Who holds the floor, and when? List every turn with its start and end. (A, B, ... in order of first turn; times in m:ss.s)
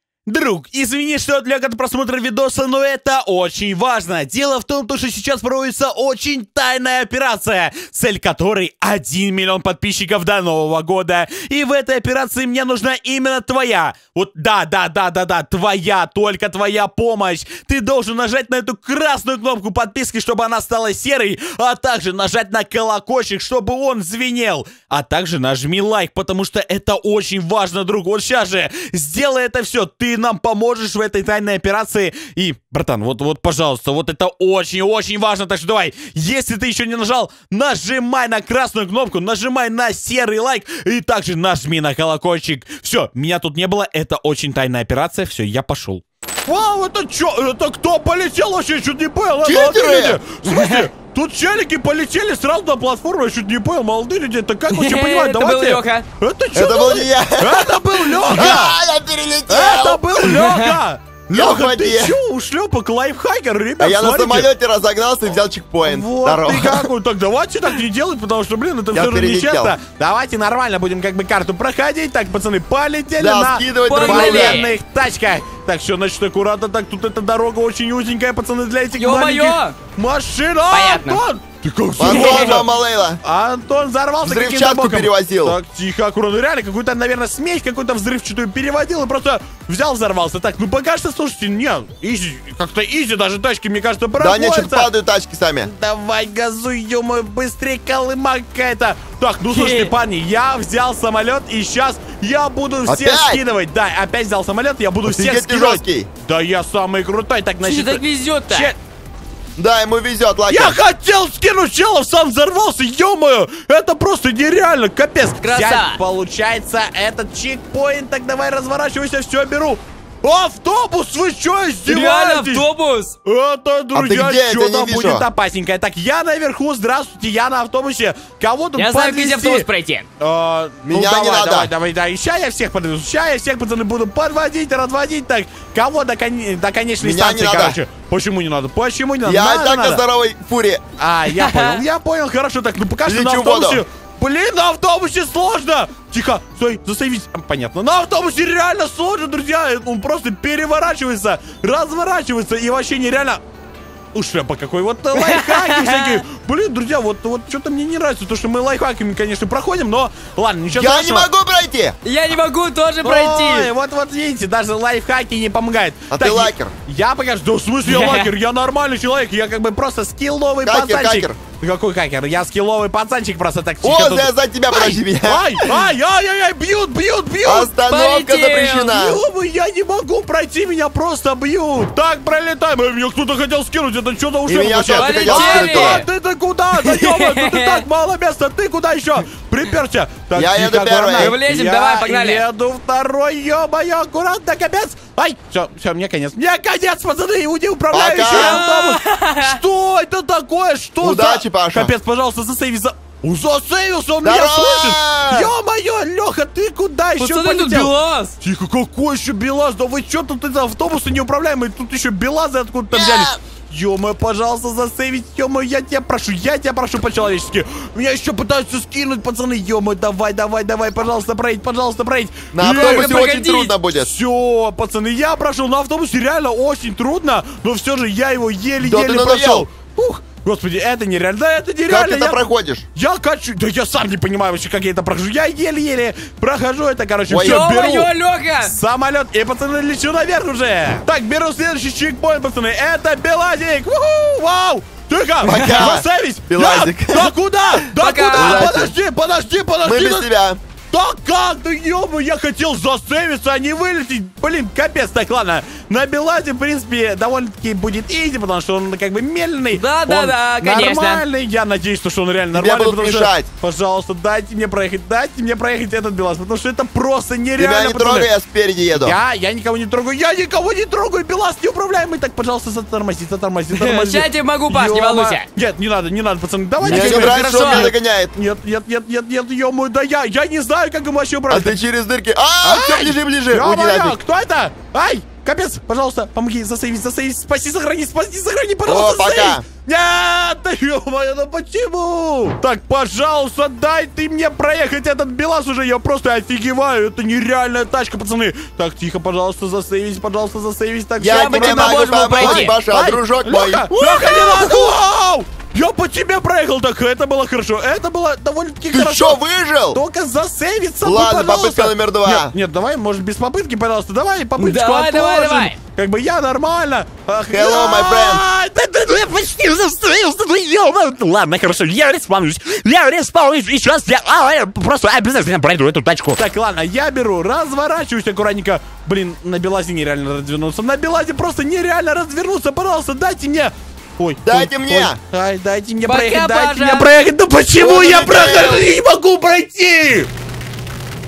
0:00.3-0:58.8 A
0:49.4-0:50.2 B
0:50.4-0:50.8 C
0:54.7-0:56.0 C
0:56.5-0:57.8 B
0:58.3-1:00.2 B
0:59.5-1:04.5 A
1:00.3-1:00.7 C
1:01.3-1:02.2 B
1:03.8-1:06.9 B
1:05.8-1:22.7 A
1:08.9-1:09.8 B
1:13.2-1:14.6 B
1:13.9-1:14.8 C
1:18.9-1:19.8 C
1:20.7-1:21.2 C
1:22.0-1:23.2 B
1:22.0-1:22.6 C
1:23.2-1:34.9 A
1:24.2-1:25.6 B
1:34.2-1:35.7 B
1:35.6-1:48.8 A
1:39.5-1:39.9 C
1:42.9-1:43.4 B
1:45.0-1:46.1 B
1:47.6-1:48.7 C
1:49.6-1:50.8 B
1:50.5-2:02.7 A
1:55.4-1:56.0 C
2:01.9-2:03.1 C
2:03.2-2:09.6 A
2:03.9-2:05.3 B
2:08.8-2:10.1 C
2:10.2-2:20.0 A
2:10.9-2:11.7 B
2:17.0-2:17.8 B
2:19.2-2:20.8 B
2:21.0-2:33.4 A
2:21.3-2:21.8 C
2:23.0-2:23.8 B
2:34.1-2:41.3 A
2:35.1-2:36.2 C
2:40.7-2:42.0 B
2:42.0-2:43.7 C
2:43.0-2:57.7 A
2:46.1-2:46.7 B
2:47.9-2:48.3 C
2:50.6-2:51.4 B
2:53.8-2:55.8 B
2:57.4-2:59.2 B
2:57.9-2:58.9 C
2:58.9-3:43.2 A
3:04.5-3:06.0 B
3:04.9-3:06.1 C
3:06.8-3:07.8 C
3:10.3-3:11.4 B
3:11.1-3:12.4 C
3:17.9-3:18.6 B
3:18.3-3:19.6 C
3:21.0-3:21.9 B
3:24.2-3:25.5 B
3:27.2-3:28.4 C
3:32.9-3:33.4 B
3:42.5-3:44.1 B
3:42.6-3:43.7 C
3:43.9-4:10.3 A
3:48.8-3:49.6 B
3:51.9-3:52.8 B
3:57.3-3:57.6 B
3:57.4-3:58.7 C
4:05.4-4:07.3 B
4:07.9-4:08.7 C
4:08.3-4:08.9 B
4:09.8-4:10.6 B
4:10.9-4:28.3 A
4:19.7-4:21.2 C
4:22.5-4:23.5 B
4:27.6-4:29.2 B
4:29.0-4:41.7 A
4:33.7-4:35.5 C
4:36.8-4:38.3 B
4:36.8-4:37.9 C
4:41.5-4:44.2 B
4:42.6-5:09.4 A
4:48.8-4:49.6 B
5:01.2-5:04.9 B
5:01.3-5:02.7 C
5:08.9-5:10.0 B
5:09.9-5:40.3 A
5:11.0-5:12.5 B
5:14.6-5:15.8 C
5:17.5-5:18.4 B
5:34.4-5:35.2 B
5:36.0-5:37.1 C
5:37.8-5:38.9 B